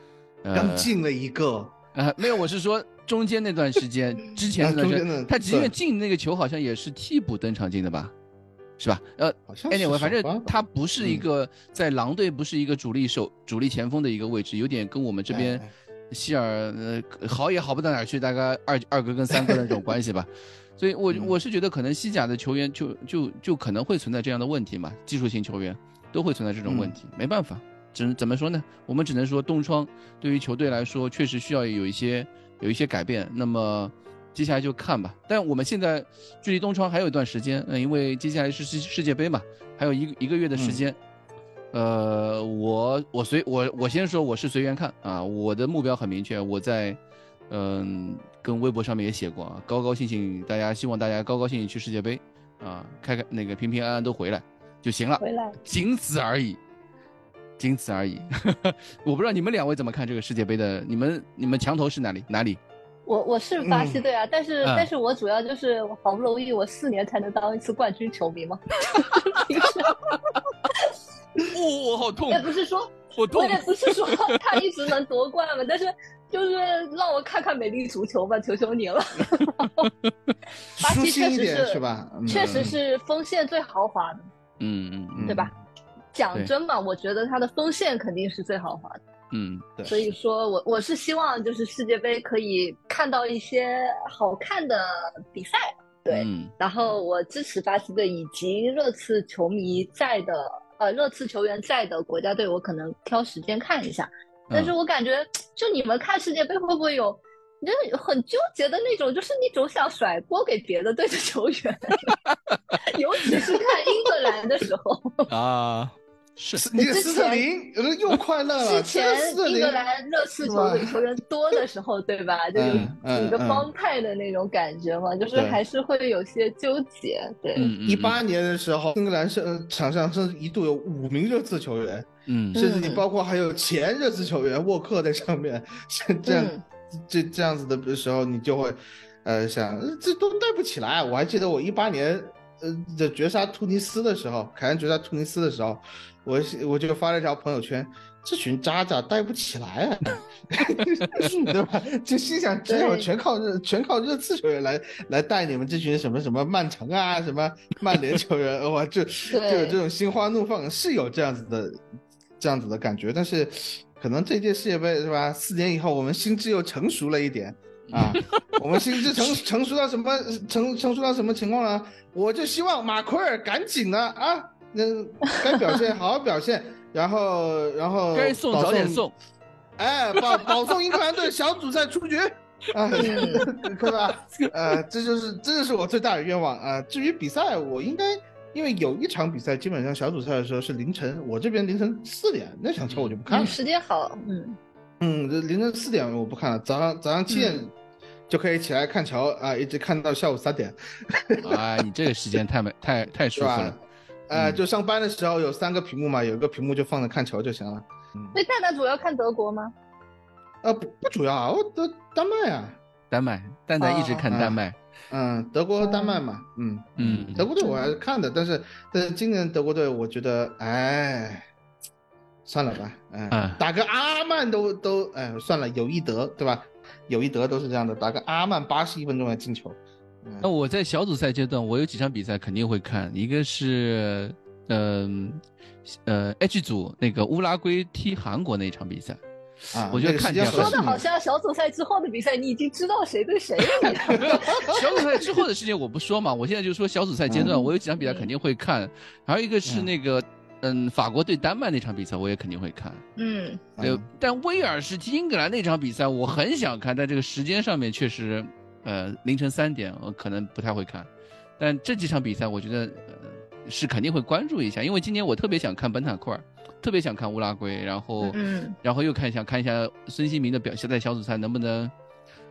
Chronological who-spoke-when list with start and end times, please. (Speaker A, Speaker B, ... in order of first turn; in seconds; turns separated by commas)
Speaker A: 0.4-0.9, Speaker B: 0.5-1.8, Speaker A: 1.9-8.1, Speaker B: 4.6-5.7, Speaker A: 8.8-41.0, Speaker B: 9.5-11.2, Speaker B: 15.3-15.7, Speaker B: 26.7-26.9, Speaker B: 40.6-40.8, Speaker A: 41.7-47.0, Speaker A: 47.5-56.6, Speaker C: 55.2-55.6, Speaker A: 57.6-62.6, Speaker C: 63.1-69.9, Speaker B: 63.6-64.0, Speaker A: 64.6-64.9, Speaker A: 68.9-70.2, Speaker A: 71.5-72.5, Speaker C: 72.3-79.9, Speaker A: 73.1-74.5, Speaker A: 79.4-80.3, Speaker B: 80.8-82.8, Speaker C: 80.8-84.3, Speaker A: 82.3-82.7, Speaker A: 84.6-85.4, Speaker B: 85.2-85.5, Speaker C: 86.1-89.0, Speaker A: 89.3-89.7, Speaker C: 89.9-112.1, Speaker A: 96.1-96.5, Speaker A: 112.0-112.6, Speaker C: 112.8-115.3, Speaker A: 115.3-116.6, Speaker B: 116.6-119.8, Speaker C: 116.8-117.5, Speaker C: 118.6-127.7, Speaker B: 120.4-121.0, Speaker B: 122.5-123.7, Speaker B: 125.3-125.6, Speaker A: 127.6-128.2, Speaker B: 127.8-161.8, Speaker A: 132.3-132.6, Speaker C: 132.5-133.0, Speaker C: 136.3-136.6, Speaker C: 152.7-153.1, Speaker C: 159.3-159.8, Speaker B: 162.4-179.1, Speaker A: 167.9-168.4, Speaker A: 178.1-179.1, Speaker B: 179.8-193.6, Speaker C: 182.9-183.5, Speaker A: 192.9-193.2, Speaker C: 193.3-194.6, Speaker B: 195.0-197.7, Speaker C: 197.3-197.6, Speaker B: 198.3-201.6, Speaker A: 201.4-203.8, Speaker B: 203.4-208.4, Speaker A: 204.3-204.6, Speaker C: 208.3-209.7, Speaker B: 210.6-212.8, Speaker A: 213.1-214.8, Speaker B: 213.8-221.5, Speaker C: 215.8-216.2, Speaker A: 217.0-217.5, Speaker C: 217.6-217.9, Speaker B: 222.5-230.5, Speaker A: 223.3-223.6, Speaker A: 230.4-239.2, Speaker B: 239.7-241.0, Speaker A: 239.9-240.9, Speaker C: 240.4-245.0, Speaker A: 244.1-253.0, Speaker B: 244.1-244.8, Speaker B: 247.3-247.6, Speaker C: 247.5-248.3, Speaker C: 253.2-253.7, Speaker B: 253.8-254.1, Speaker A: 253.8-261.1, Speaker A: 261.6-271.9, Speaker C: 268.3-268.8